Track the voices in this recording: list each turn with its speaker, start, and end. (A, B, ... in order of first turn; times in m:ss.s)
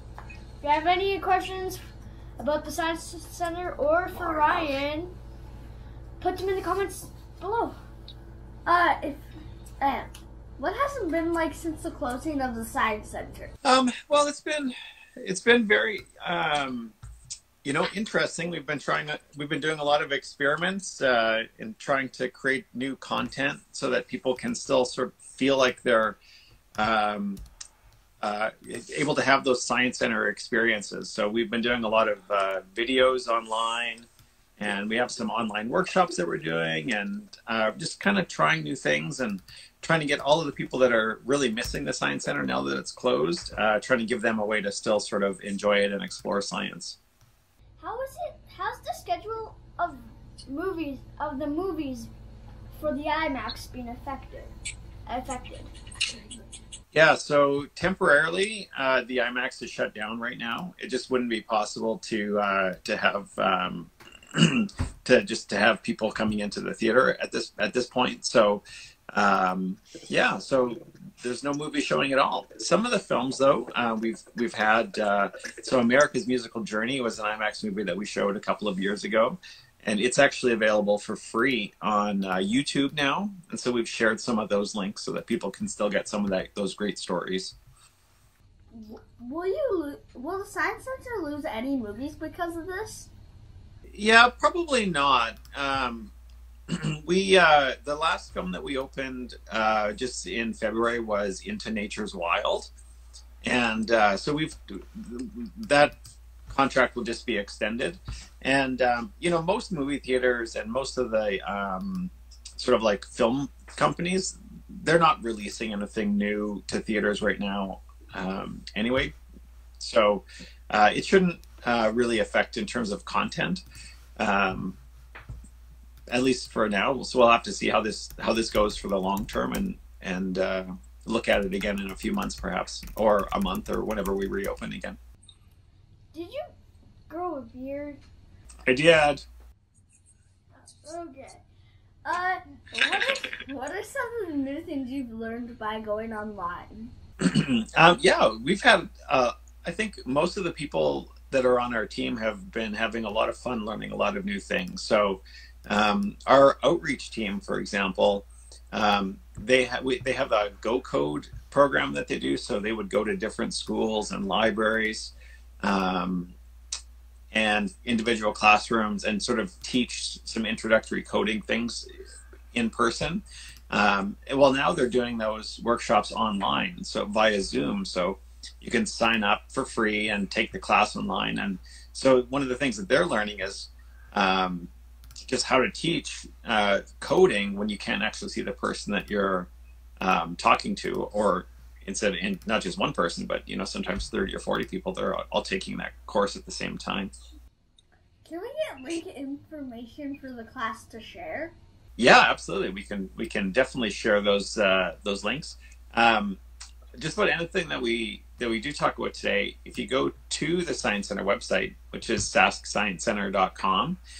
0:00.6-0:01.8 A
0:02.4-0:05.2 A
0:06.2-0:07.8 A
0:08.6-0:09.3 B
0:09.8-0:13.5 B
0:13.6-0:17.0 C
0:17.6-0:26.2 C
0:26.8-0:27.4 C
0:28.2-0:47.0 C
0:47.8-0:52.1 A
0:52.7-0:54.5 A
0:55.0-0:55.7 A
0:56.9-1:27.6 C
1:28.7-1:33.1 B
1:33.9-1:36.1 C
1:36.7-1:42.7 C
1:43.4-1:46.0 C
1:46.5-1:59.2 C
1:59.8-2:03.6 C
2:04.2-2:04.8 C
2:06.1-2:15.0 C
2:16.1-2:16.5 A
2:17.1-2:18.0 A
2:18.6-2:19.2 C
2:20.8-2:21.4 A
2:22.0-2:26.9 B
2:27.2-2:46.4 C
2:47.3-2:51.9 C
2:52.5-3:04.7 C
3:05.2-3:17.1 C
3:18.2-3:21.5 B
3:22.0-3:26.4 C
3:27.0-3:34.0 C